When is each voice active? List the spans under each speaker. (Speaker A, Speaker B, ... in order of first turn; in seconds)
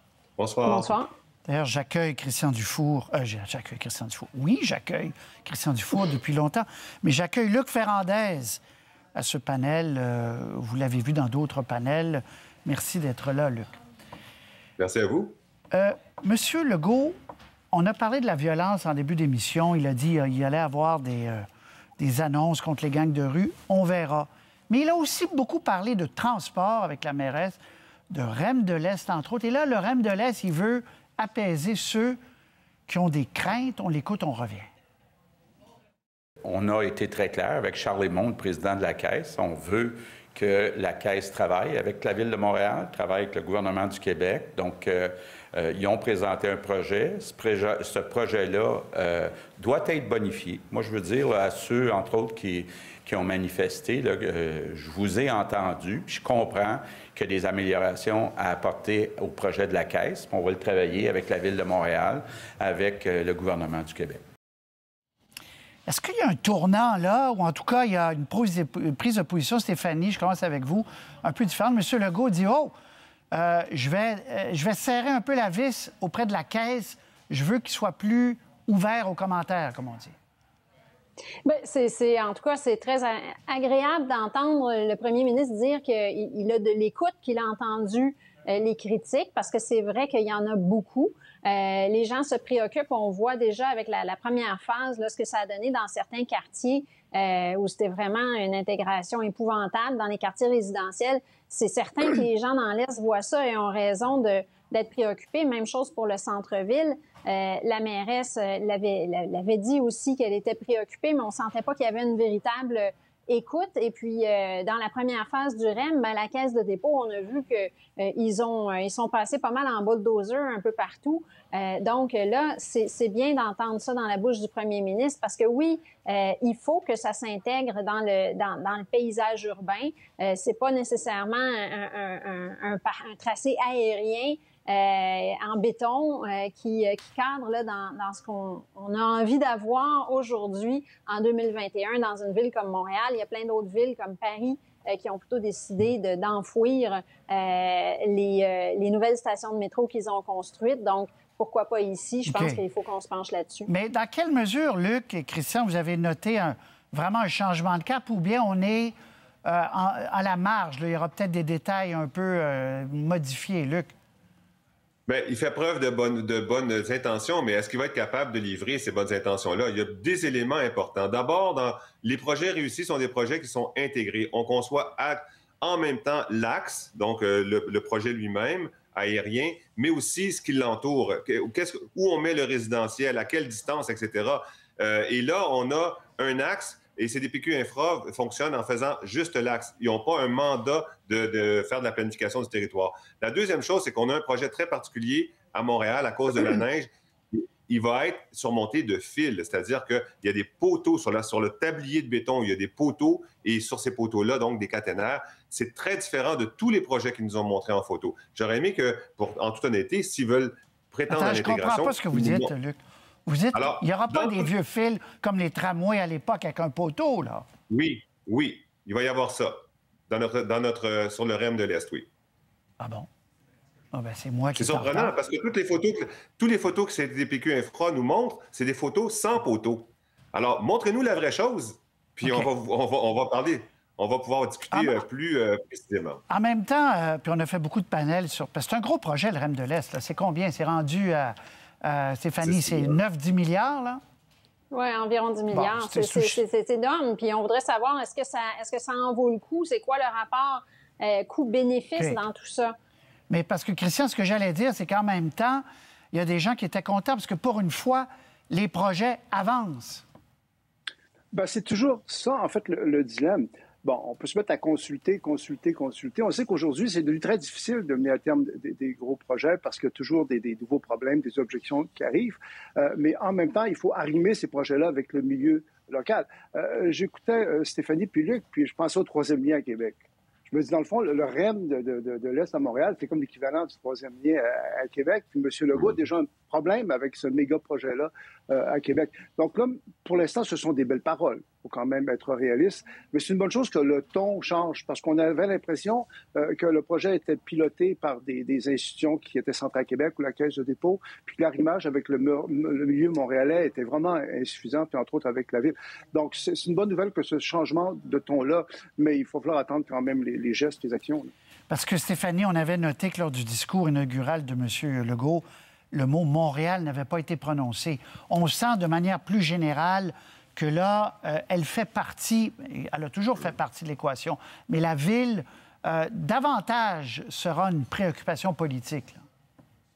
Speaker A: 0.4-0.9, 14.8-15.3, 165.1-212.5, 213.5-214.5, 217.7-219.5, 220.1-222.1, 224.6-236.2, 242.4-243.0
Speaker B: 0.6-1.1, 81.4-153.7, 244.7-252.7
Speaker C: 1.4-8.6, 9.1-13.7, 15.7-17.1, 17.7-21.4, 22.0-32.2, 32.9-34.7, 65.9-72.7, 73.3-80.1, 152.2-152.6, 153.7-163.9, 211.1-217.4, 222.8-223.1, 223.9-225.1, 234.7-235.0, 236.3-244.0, 245.5-246.4, 253.3-260.0, 311.7-329.2
Speaker D: 36.4-64.2
Speaker E: 261.3-311.3